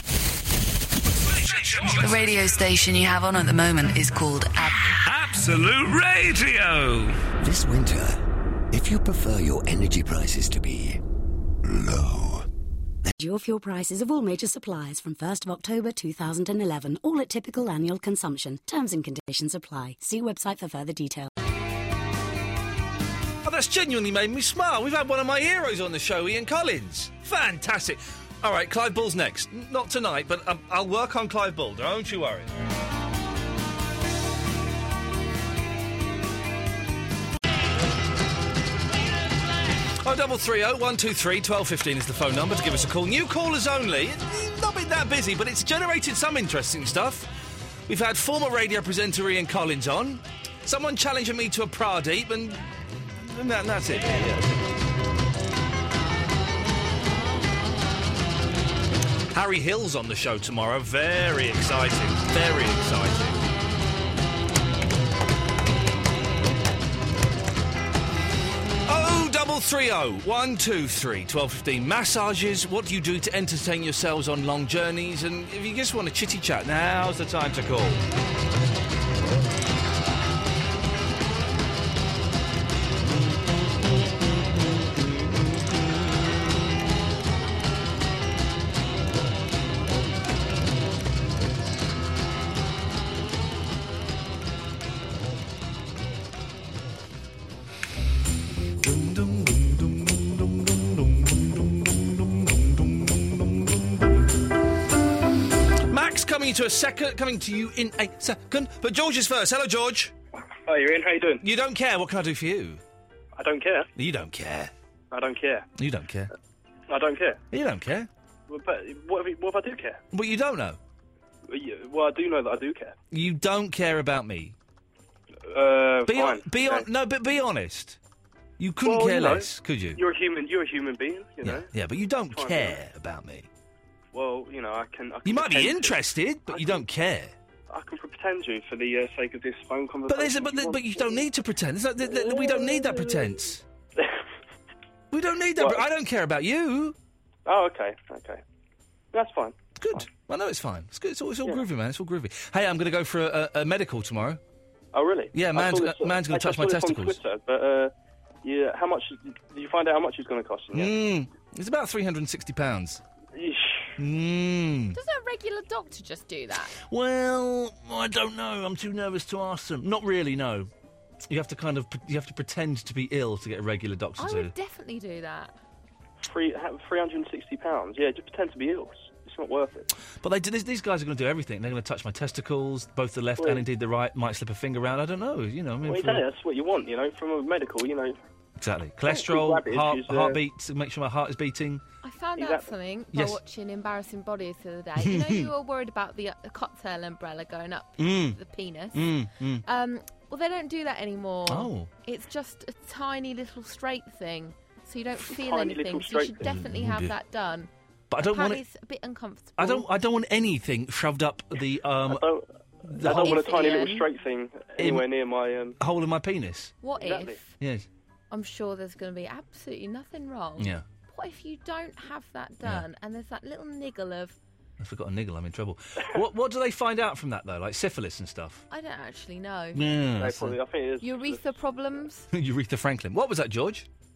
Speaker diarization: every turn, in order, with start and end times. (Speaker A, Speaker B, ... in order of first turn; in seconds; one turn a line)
Speaker A: 1.4-2.1
Speaker B: 2.0-5.0
Speaker A: 5.0-7.2
Speaker C: 7.4-8.2
Speaker C: 8.7-11.0
Speaker C: 11.7-12.5
Speaker D: 13.2-21.3
Speaker E: 23.4-32.5
Speaker E: 40.0-47.3
Speaker E: 47.9-54.6
Speaker E: 59.3-63.5
Speaker E: 68.9-78.0
Speaker E: 98.8-100.9
Speaker E: 102.6-103.4
Speaker E: 105.9-110.1
Speaker F: 110.7-111.4
Speaker E: 111.4-112.8
Speaker F: 113.4-113.9
Speaker E: 114.0-114.7
Speaker F: 115.1-115.7
Speaker E: 115.8-116.3
Speaker F: 116.9-117.4
Speaker E: 117.5-118.1
Speaker F: 118.5-120.0
Speaker E: 120.1-120.8
Speaker F: 121.5-123.0
Speaker E: 123.1-124.6
Speaker F: 125.5-126.9
Speaker E: 126.1-128.0
Speaker E: 128.6-130.0
Speaker F: 128.8-131.7
Speaker E: 131.4-133.5
Speaker F: 132.3-132.8
Speaker F: 134.1-136.9
Speaker E: 135.2-137.3
Speaker F: 137.7-141.3
Speaker E: 140.1-143.6
Speaker F: 142.0-144.2
Speaker E: 145.1-147.0
Speaker F: 145.6-145.9
Speaker F: 147.5-148.4
Speaker F: 149.1-150.1
Speaker E: 149.8-154.4
Speaker F: 154.9-161.0
Speaker E: 155.3-157.2
Speaker E: 160.7-163.0
Speaker F: 163.3-163.9
Speaker E: 164.0-165.0
Speaker G: 164.9-166.8
Speaker E: 166.8-170.7
Speaker E: 171.3-174.5
Speaker G: 174.2-175.6
Speaker F: 176.2-179.9
Speaker E: 180.2-186.2
Speaker F: 183.4-183.7
Speaker F: 185.8-188.2
Speaker E: 188.6-191.8
Speaker F: 189.1-190.4
Speaker G: 192.0-209.9
Speaker F: 192.4-192.7
Speaker E: 193.1-193.4
Speaker E: 195.0-195.5
Speaker E: 198.0-198.4
Speaker E: 198.9-199.6
Speaker E: 201.5-201.9
Speaker F: 205.3-206.5
Speaker E: 206.4-207.2
Speaker E: 208.1-208.6
Speaker E: 209.6-212.2
Speaker F: 212.1-215.8
Speaker E: 212.9-213.5
Speaker G: 213.0-214.1
Speaker E: 214.8-215.1
Speaker E: 215.8-216.8
Speaker G: 216.8-217.5
Speaker F: 217.0-217.4
Speaker E: 217.6-217.9
Speaker G: 218.3-224.4
Speaker E: 220.6-220.8
Speaker E: 224.8-228.7
Speaker G: 228.7-229.8
Speaker E: 229.8-230.6
Speaker F: 230.2-231.6
Speaker G: 231.0-232.3
Speaker E: 232.3-233.9